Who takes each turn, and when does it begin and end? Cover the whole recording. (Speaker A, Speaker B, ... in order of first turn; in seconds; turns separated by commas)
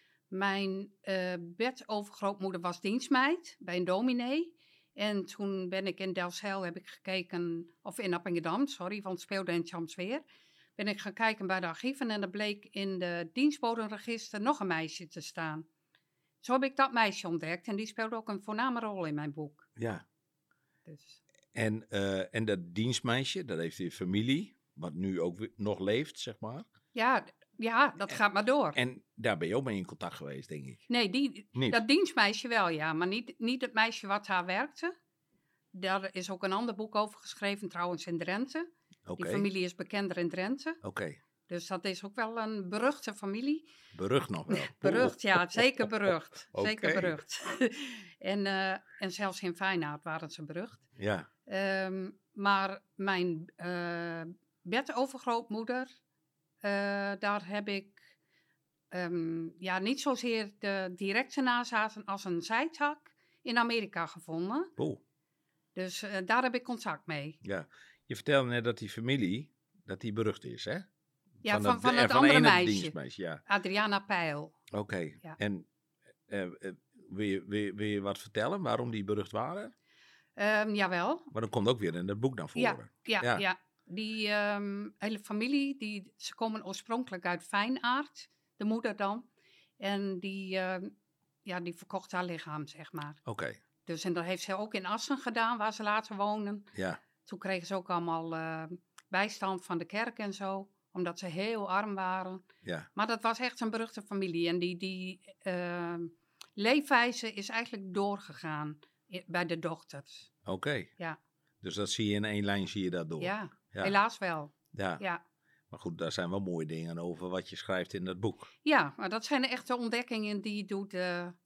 Speaker A: 0.3-10.2, Speaker A: 10.8-15.7, Speaker A: 16.4-19.7, Speaker B: 19.8-20.0, Speaker A: 20.9-21.2, Speaker B: 21.5-26.7, Speaker A: 26.9-28.8, Speaker B: 28.7-30.9, Speaker A: 30.9-34.9, Speaker B: 31.5-31.8, Speaker A: 35.7-40.8, Speaker B: 39.1-39.5, Speaker B: 40.8-41.2, Speaker A: 41.5-43.6, Speaker B: 43.9-47.2, Speaker A: 44.5-50.8, Speaker B: 51.0-51.3, Speaker A: 51.5-55.9, Speaker A: 56.6-58.1, Speaker A: 58.9-64.7, Speaker A: 65.7-67.4, Speaker B: 67.4-70.9, Speaker A: 71.4-72.9, Speaker B: 71.4-73.4, Speaker A: 73.5-74.5, Speaker B: 74.7-75.7, Speaker B: 76.3-79.7, Speaker A: 80.4-81.3, Speaker B: 81.3-83.4, Speaker A: 82.5-89.3, Speaker A: 89.8-90.9, Speaker A: 91.4-93.2, Speaker B: 93.2-93.6, Speaker A: 93.8-96.7, Speaker B: 96.7-97.0, Speaker A: 97.2-102.4, Speaker B: 102.6-102.9, Speaker A: 102.9-110.3, Speaker B: 110.5-110.9, Speaker B: 111.6-113.9, Speaker A: 113.2-115.2, Speaker B: 114.7-115.0, Speaker B: 115.7-118.5, Speaker A: 118.6-121.3